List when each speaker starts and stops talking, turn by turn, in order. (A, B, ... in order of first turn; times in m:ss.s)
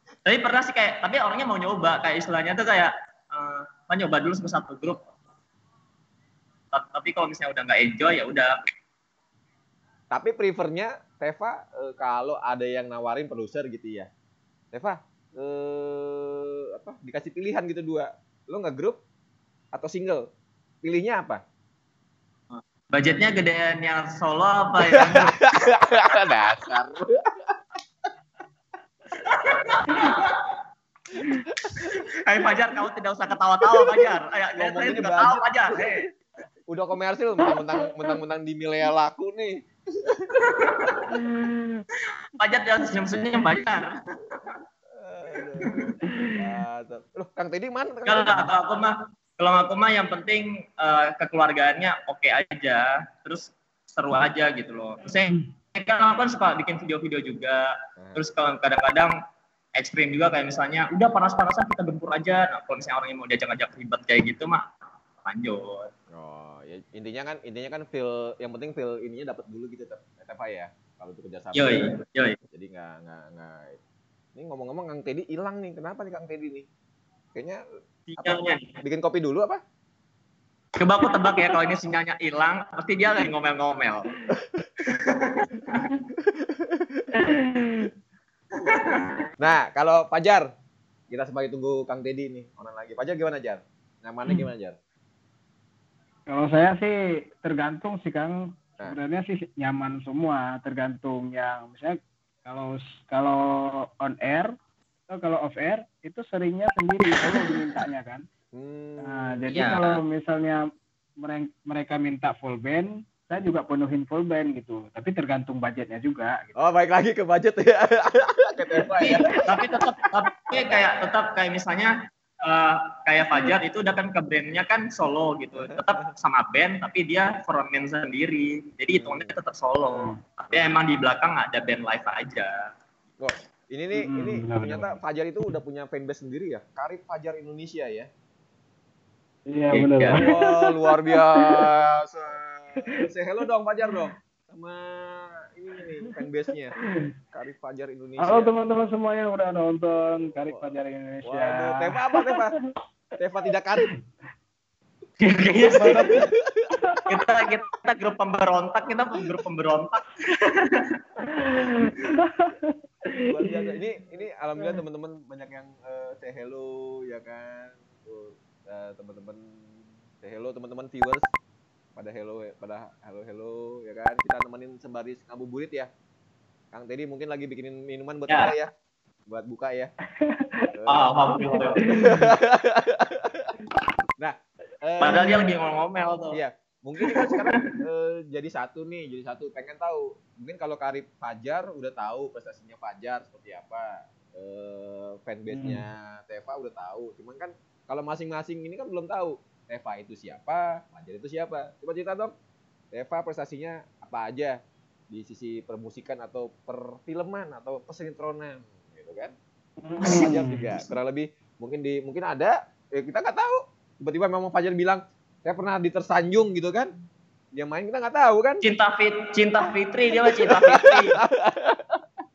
0:00.2-0:05.0 A
0:06.7-0:08.5 A
0:10.1-0:14.1 B
0:14.7-0:19.0 B
0:19.7-0:20.3 B
0:20.8-0:21.4 B
0:22.5-0:25.4 A
0:25.0-0:27.5 B
0:29.2-0:30.5 A
0:31.2-0:31.9 B
0:31.8-0:36.1 A
0:34.5-0:36.0 B
0:36.7-0:40.9 B
0:40.4-0:41.0 A
0:41.2-0:41.8 C
0:42.4-0:44.5 A
0:44.9-0:45.8 B
0:45.7-0:46.0 A
0:46.1-0:46.4 C
0:46.3-0:48.5 B
0:48.1-0:59.1 A
0:58.0-0:58.2 B
0:59.8-1:04.6 A
1:05.2-1:05.9 A
1:06.1-1:11.9 B
1:11.5-1:12.4 A
1:12.5-1:13.8 B
1:14.4-1:16.6 B
1:17.3-1:17.6 B
1:18.1-1:18.7 A
1:18.2-1:19.6 B
1:20.8-1:24.1 A
1:24.8-1:25.9 A
1:26.2-1:27.0 B
1:27.1-1:27.9 C
1:28.6-1:29.3 A
1:29.4-1:30.5 B
1:31.1-1:34.8 B
1:36.3-1:44.5 C
1:45.1-1:48.2 C
1:48.5-1:49.5 B
1:49.0-1:50.6 C
1:49.5-1:50.0 A
1:51.2-1:56.5 C
1:56.6-1:59.4 B
1:58.8-1:59.9 C
1:59.0-2:12.5 A
2:00.6-2:00.8 B
2:05.6-2:06.1 B
2:08.9-2:09.4 B
2:13.2-2:18.1 B
2:13.9-2:14.9 C
2:19.5-2:21.7 C
2:19.7-2:20.2 A
2:20.1-2:26.8 B
2:27.3-2:28.5 B
2:28.2-2:32.7 C
2:30.4-2:32.5 B
2:33.2-2:33.9 B
2:35.2-2:36.3 A
2:35.7-2:36.2 C
2:35.7-2:37.0 B
2:36.8-2:37.1 C
2:37.1-2:40.9 A
2:41.3-2:43.8 C
2:43.3-2:49.5 B
2:50.2-2:51.3 B
2:52.0-2:55.9 B
2:56.7-2:58.7 B
2:59.3-2:59.9 B
3:00.2-3:00.7 C
3:00.7-3:03.5 B
3:00.9-3:01.8 A
3:01.3-3:02.3 C
3:04.2-3:05.5 B
3:05.0-3:06.4 A
3:06.3-3:22.3 B
3:07.1-3:07.7 A
3:15.5-3:15.8 C
3:22.9-3:24.6 B
3:25.1-3:29.3 B
3:29.8-3:30.6 C
3:30.0-3:36.9 B
3:37.5-3:38.6 B
3:38.6-3:41.2 A
3:40.3-3:42.0 B